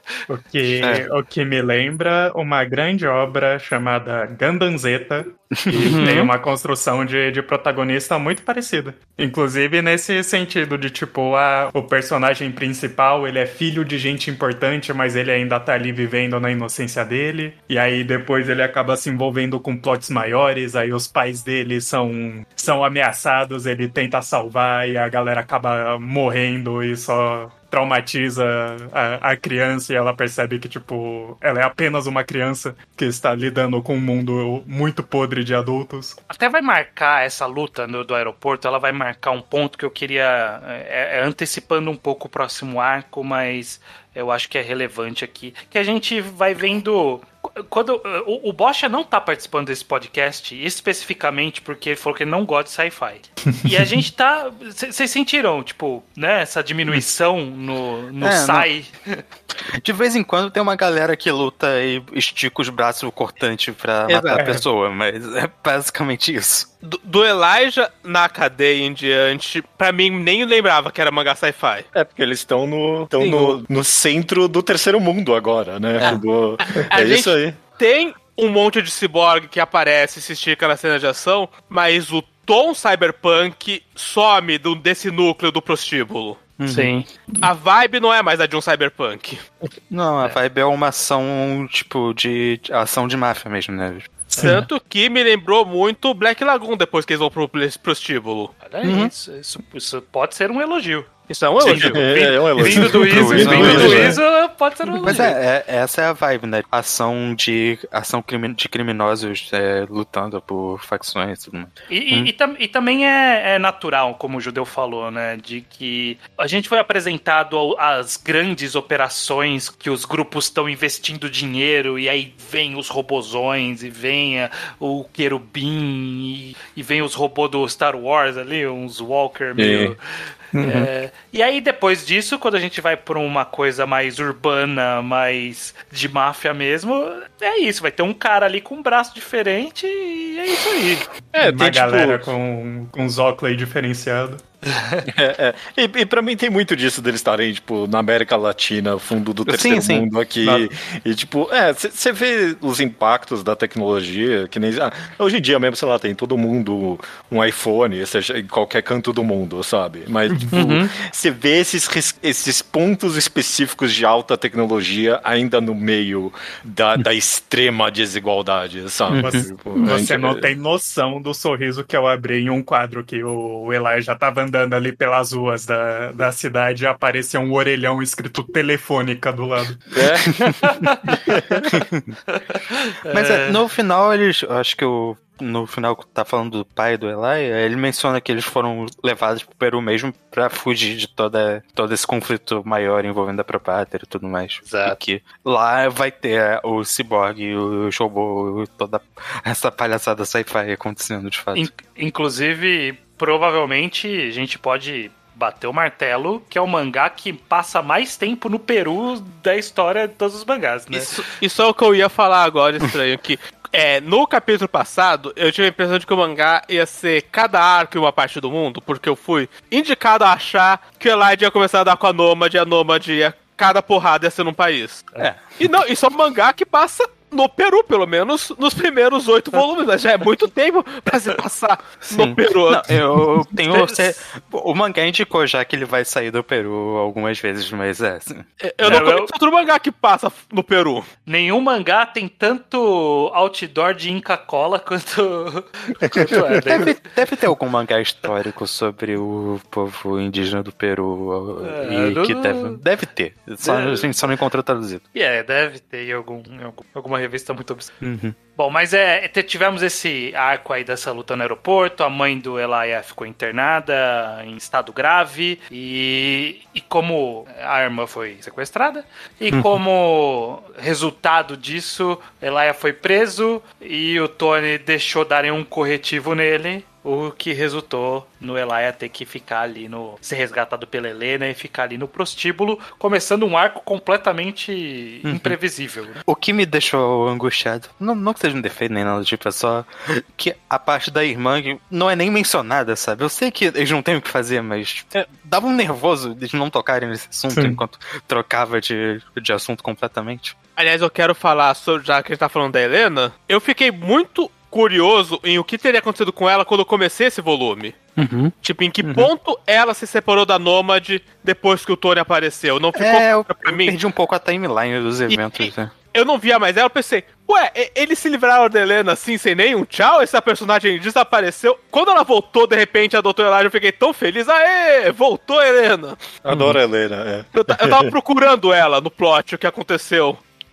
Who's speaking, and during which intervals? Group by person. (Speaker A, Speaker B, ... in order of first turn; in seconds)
Speaker A: 0.3-36.2, 53.5-53.9, 130.6-130.9, 141.3-144.4, 160.3-160.5, 169.2-180.0, 297.5-297.8
Speaker B: 5.6-6.1, 58.2-58.7, 59.8-66.7, 86.6-86.9, 89.9-94.3, 98.8-99.1, 102.6-104.2, 105.0-112.3, 149.4-150.1, 169.1-169.5, 183.1-201.7, 225.2-225.5, 232.0-238.4, 246.7-255.0, 258.0-258.4, 285.2-285.6, 286.2-300.6, 308.1-309.3, 312.9-315.9
Speaker C: 36.3-59.1, 86.7-87.0, 94.3-94.7, 98.6-101.1, 102.5-105.4, 111.9-130.0, 130.6-141.1, 144.7-145.0, 160.5-160.9, 180.5-181.3, 182.3-183.6, 194.7-195.0, 201.5-211.2, 233.6-234.2, 238.8-239.3, 241.2-246.9, 251.6-252.8, 253.6-254.0, 255.1-257.9, 258.6-286.2
Speaker D: 64.1-64.4, 66.8-71.8, 73.2-73.6, 76.0-86.4, 87.4-89.4, 94.4-98.5, 101.3-102.4, 103.4-104.1, 210.9-232.9, 238.6-241.1, 300.8-308.0, 308.6-313.9, 315.3-326.2, 327.5-330.4
Speaker E: 71.9-77.6, 101.6-104.2, 129.6-129.9, 141.3-142.2, 145.1-170.4, 179.9-180.4, 326.4-328.1